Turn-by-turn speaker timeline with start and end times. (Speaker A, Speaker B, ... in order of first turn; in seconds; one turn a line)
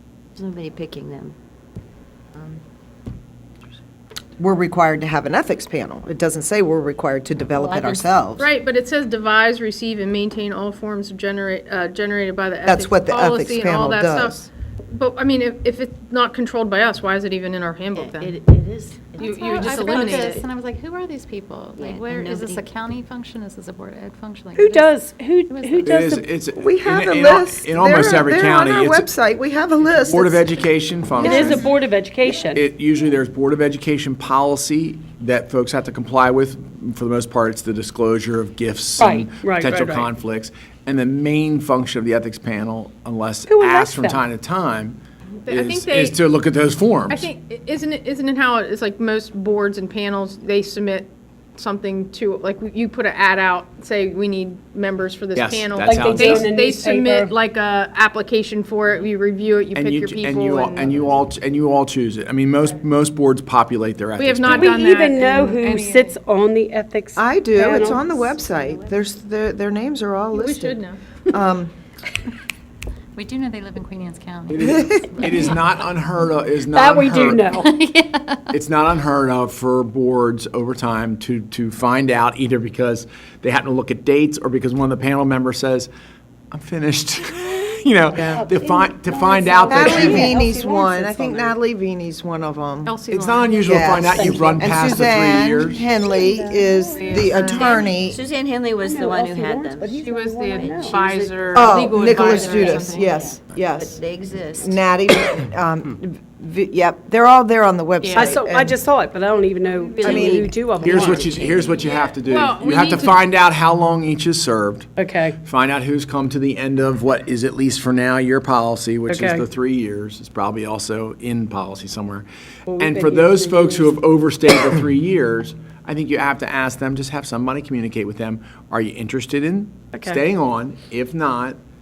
Speaker A: 0.3-1.3
Speaker A: 2.3-2.6
Speaker B: 4.4-8.5
Speaker A: 7.6-8.1
Speaker C: 8.4-18.3
Speaker B: 12.7-14.4
Speaker A: 17.9-20.4
Speaker C: 19.2-20.4
Speaker D: 19.2-24.9
Speaker A: 21.8-22.7
Speaker E: 24.6-26.2
Speaker D: 25.5-25.9
Speaker F: 25.8-29.1
Speaker B: 26.6-30.5
Speaker F: 30.1-31.7
Speaker E: 31.2-32.6
Speaker B: 31.3-31.6
Speaker D: 31.3-31.7
Speaker F: 32.5-47.3
Speaker E: 39.0-40.1
Speaker E: 43.5-44.2
Speaker C: 45.5-46.2
Speaker C: 47.1-61.2
Speaker F: 55.3-56.5
Speaker E: 55.8-57.3
Speaker F: 59.8-64.9
Speaker C: 64.2-66.2
Speaker E: 64.5-68.1
Speaker B: 67.2-71.7
Speaker C: 70.3-71.0
Speaker D: 73.2-75.6
Speaker F: 74.5-77.5
Speaker B: 74.6-75.1
Speaker E: 76.6-77.7
Speaker D: 77.5-78.5
Speaker F: 78.5-85.9
Speaker F: 86.5-90.3
Speaker B: 88.1-88.4
Speaker E: 89.2-91.5
Speaker A: 89.4-90.4
Speaker B: 89.7-93.0
Speaker C: 92.8-93.8
Speaker F: 93.1-95.9
Speaker B: 93.6-98.2
Speaker E: 94.0-94.7
Speaker E: 96.1-97.3
Speaker C: 96.9-98.0
Speaker A: 97.5-100.0
Speaker E: 98.8-101.0
Speaker C: 100.0-103.2
Speaker A: 100.5-104.8
Speaker B: 101.5-104.0
Speaker B: 104.6-108.7
Speaker C: 108.0-108.4
Speaker E: 108.1-111.3
Speaker A: 109.8-111.8
Speaker B: 110.0-110.6
Speaker F: 110.8-114.9
Speaker C: 111.8-113.2
Speaker E: 115.0-115.4
Speaker F: 115.4-131.6
Speaker E: 119.1-119.5
Speaker E: 122.7-124.0
Speaker E: 129.9-130.2